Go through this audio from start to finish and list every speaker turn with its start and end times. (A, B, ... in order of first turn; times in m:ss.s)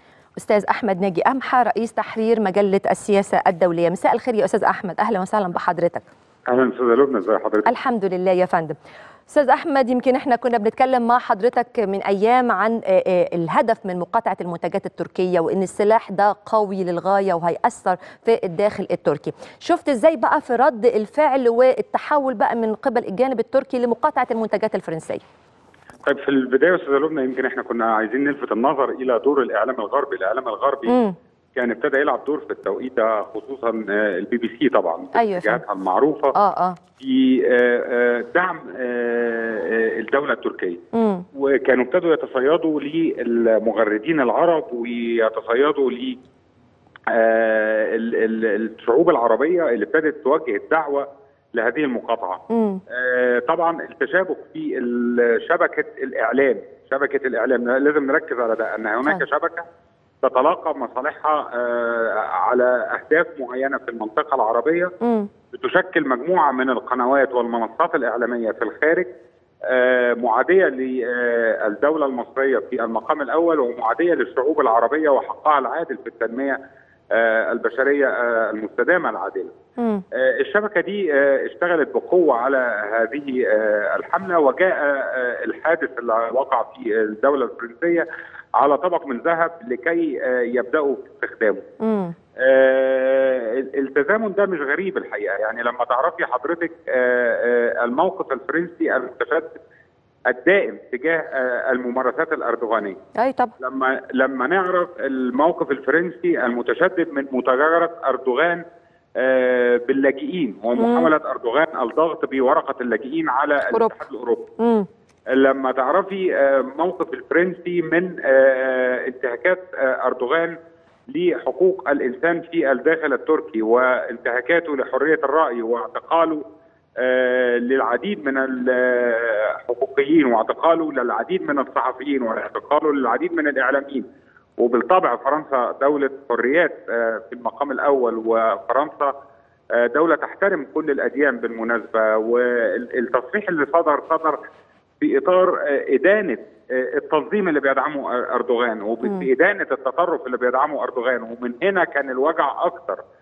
0:00.4-0:06.0 A
0:06.5-0:07.7 B
0:07.6-0:08.8 A
0:09.3-0:25.2 A
0:26.0-0:31.0 B
0:30.9-0:31.1 A
0:31.5-0:36.3 B
0:35.1-0:35.6 A
0:36.3-0:36.8 A
0:37.0-0:40.8 B
0:40.9-0:41.2 A
0:41.3-0:46.2 B
0:47.1-0:59.6 B
0:52.5-0:52.8 A
1:00.2-1:04.9 B
1:05.0-1:05.3 A
1:05.5-1:09.1 B
1:09.7-1:16.6 B
1:17.1-1:19.5 B
1:19.8-1:20.0 A
1:20.1-1:28.0 B
1:28.6-1:31.6 B
1:31.8-1:32.1 A
1:32.4-1:39.6 B
1:40.3-1:43.0 B
1:43.2-1:43.5 A
1:43.6-1:48.6 B
1:49.2-1:54.5 B
1:50.8-1:51.1 A
1:54.6-1:54.9 A
1:55.3-2:00.6 B
2:01.1-2:06.4 B
2:07.0-2:14.0 B
2:14.6-2:19.1 B
2:19.8-2:24.4 B
2:25.0-2:33.0 B
2:29.0-2:29.3 A